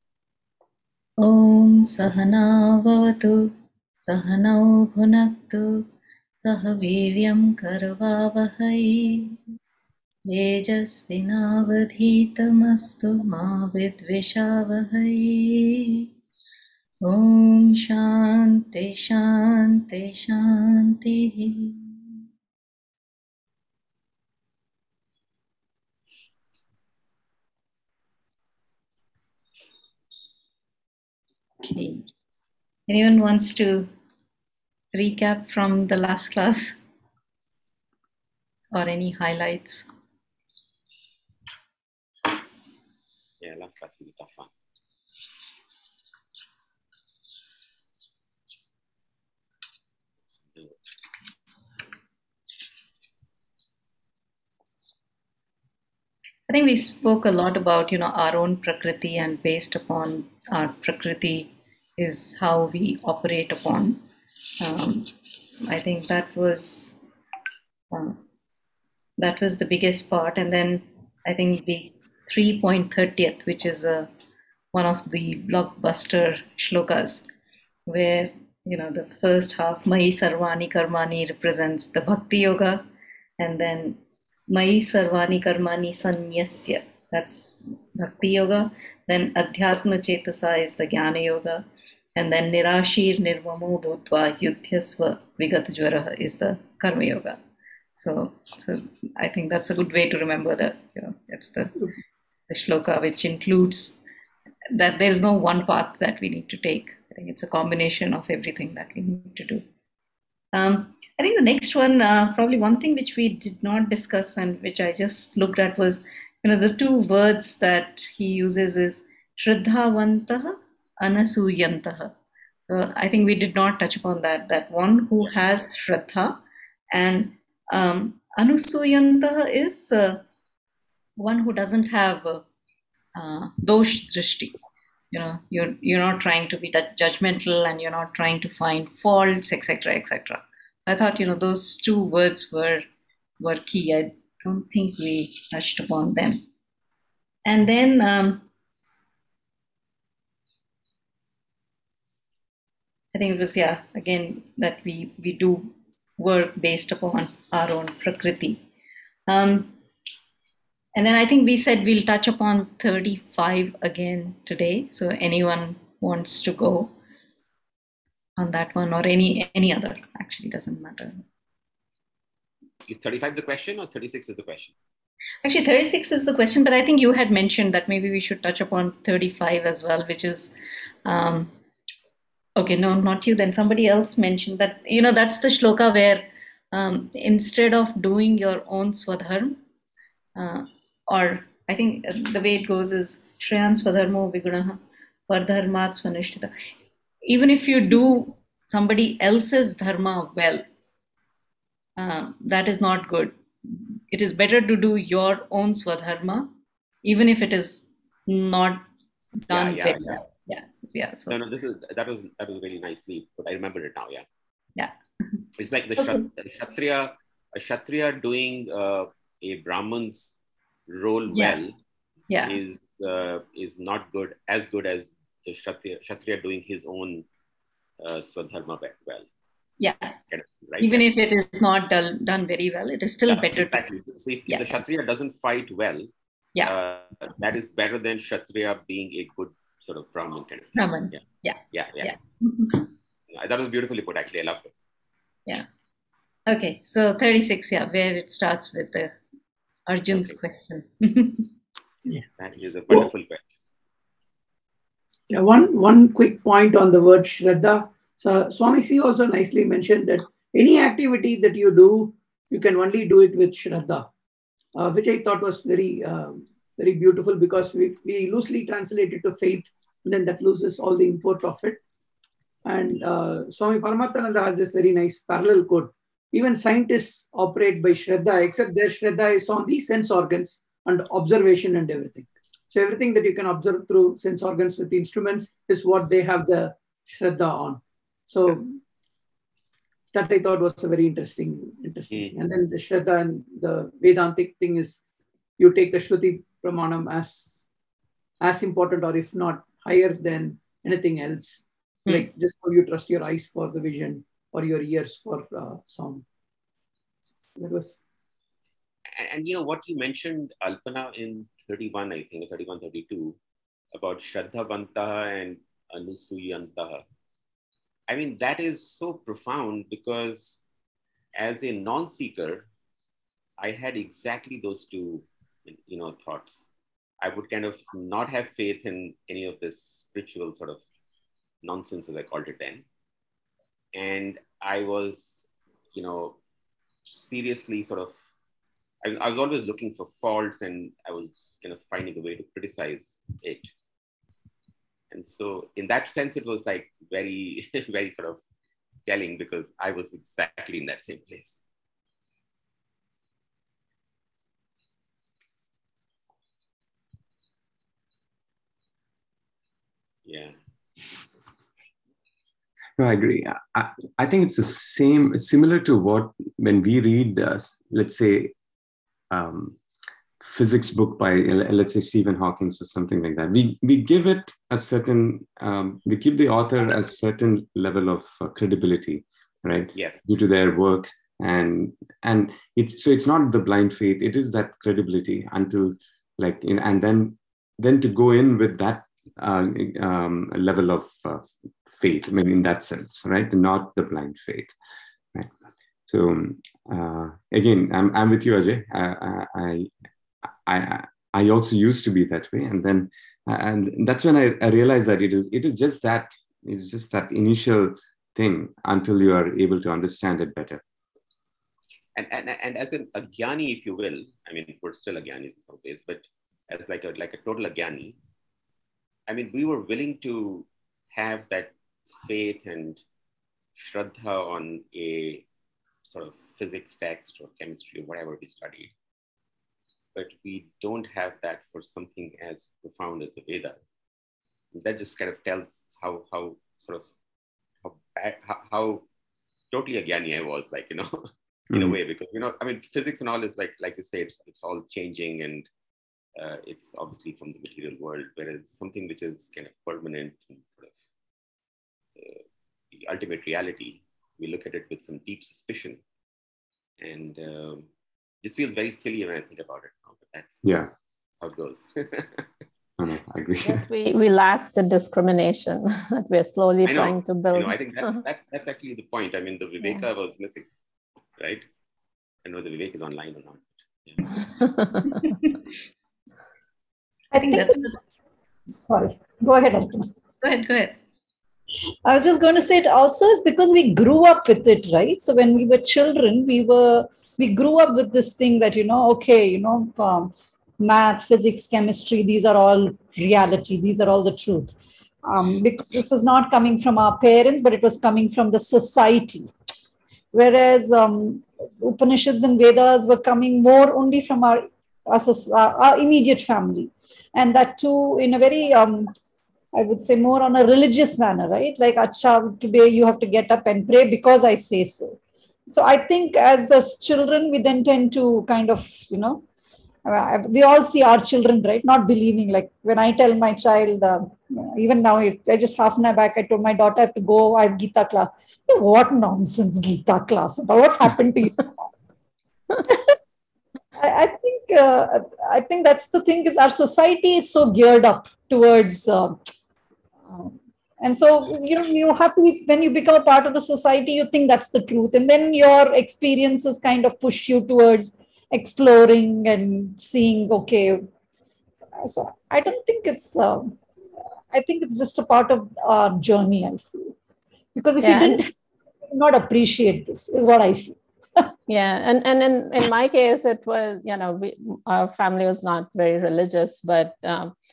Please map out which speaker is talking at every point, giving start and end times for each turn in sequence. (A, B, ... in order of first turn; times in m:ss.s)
0:01.2-0:03.5 A
0:04.0-0:05.9 A
0:06.4-0:09.4 A
0:10.3-0:16.0 A
0:17.0-0:22.2 A
0:31.6-0:32.1 A
0:32.9-0:33.9 A
0:34.9-0:36.8 A
0:38.7-0:39.9 A
0:43.4-0:44.5 B
0:56.5-1:04.0 A
1:04.6-1:07.0 A
1:07.9-1:08.2 A
1:09.2-1:14.1 A
1:14.7-1:17.2 A
1:17.9-1:22.8 A
1:23.4-1:31.6 A
1:32.2-1:37.4 A
1:38.0-1:41.9 A
1:42.5-1:44.0 A
1:44.7-1:49.6 A
1:50.5-2:02.1 A
2:02.7-2:06.4 A
2:06.9-2:10.2 A
2:11.2-2:12.4 A
2:13.2-2:14.6 A
2:15.1-2:22.8 A
2:23.4-2:26.4 A
2:27.4-2:28.5 A
2:33.1-2:38.6 A
2:39.3-2:39.8 A
2:41.0-2:46.9 A
2:48.4-2:51.2 A
2:52.9-2:54.7 B
2:55.4-3:00.5 A
3:01.0-3:01.5 A
3:02.6-3:09.6 A
3:10.4-3:16.5 A
3:17.2-3:20.6 A
3:22.0-3:26.5 A
3:27.0-3:28.9 A
3:29.5-3:31.4 A
3:29.5-3:30.3 B
3:31.3-3:34.3 B
3:35.6-3:40.4 B
3:36.0-3:36.2 A
3:40.9-3:41.8 B
3:41.3-3:41.6 A
3:42.3-3:42.6 A
3:42.4-3:47.3 B
3:48.0-3:49.3 B
3:49.8-3:50.2 A
3:50.3-3:51.1 B
3:50.8-3:53.9 A
3:53.3-3:56.1 B
3:54.5-3:54.8 A
3:56.7-4:02.1 B
4:00.8-4:02.8 A
4:03.3-4:04.7 B
4:06.5-4:09.2 A
4:09.9-4:11.5 A
4:10.1-4:10.4 B
4:12.4-4:13.4 B
4:15.3-4:24.1 C
4:24.8-4:31.8 C
4:32.6-4:48.8 C
4:50.1-4:55.0 C
4:55.6-4:57.6 C
4:58.4-5:06.2 C
5:07.6-5:08.0 C
5:09.1-5:13.4 B
5:13.9-5:17.0 B
5:18.1-5:20.6 B
5:21.4-5:22.7 B
5:23.6-5:26.7 B
5:27.2-5:30.8 B
5:31.6-5:32.8 B
5:33.9-5:35.4 B
5:35.9-5:36.4 B
5:37.1-5:38.1 B
5:39.0-5:43.7 B
5:45.1-5:48.4 B
5:49.1-5:51.6 B
6:00.3-6:00.6 B
6:03.0-6:08.5 D
6:09.3-6:09.8 D
6:10.4-6:34.7 D
6:20.0-6:20.2 B
6:36.1-6:39.9 D
6:40.6-6:50.8 D
6:52.2-6:58.2 B
6:59.3-7:03.0 B
7:03.8-7:05.5 B
7:06.1-7:08.9 B
7:10.2-7:13.9 B
7:14.7-7:17.1 B
7:17.8-7:19.0 B
7:19.7-7:25.7 B
7:21.7-7:22.0 D
7:26.4-7:31.0 B
7:32.2-7:36.0 B
7:37.0-7:37.9 B
7:38.4-7:40.6 B
7:40.6-7:40.9 D
7:41.4-7:42.5 B
7:43.0-7:43.8 D
7:43.6-7:48.2 E
7:46.8-7:50.7 B
7:51.4-7:51.6 B
7:52.4-7:54.4 B
7:54.6-7:55.1 E
7:57.3-7:57.9 F
7:57.4-7:58.0 A
7:58.7-8:00.1 F
8:00.4-8:01.0 A
8:02.0-8:19.5 F
8:20.3-8:29.1 F
8:29.7-8:39.4 F
8:40.0-8:51.8 F
8:52.9-8:53.2 F
8:54.0-8:59.4 F
9:00.3-9:11.1 F
9:11.8-9:13.8 F
9:14.5-9:17.1 F
9:17.8-9:18.5 F
9:18.0-9:18.5 E
9:19.1-9:21.5 F
9:21.7-9:27.5 E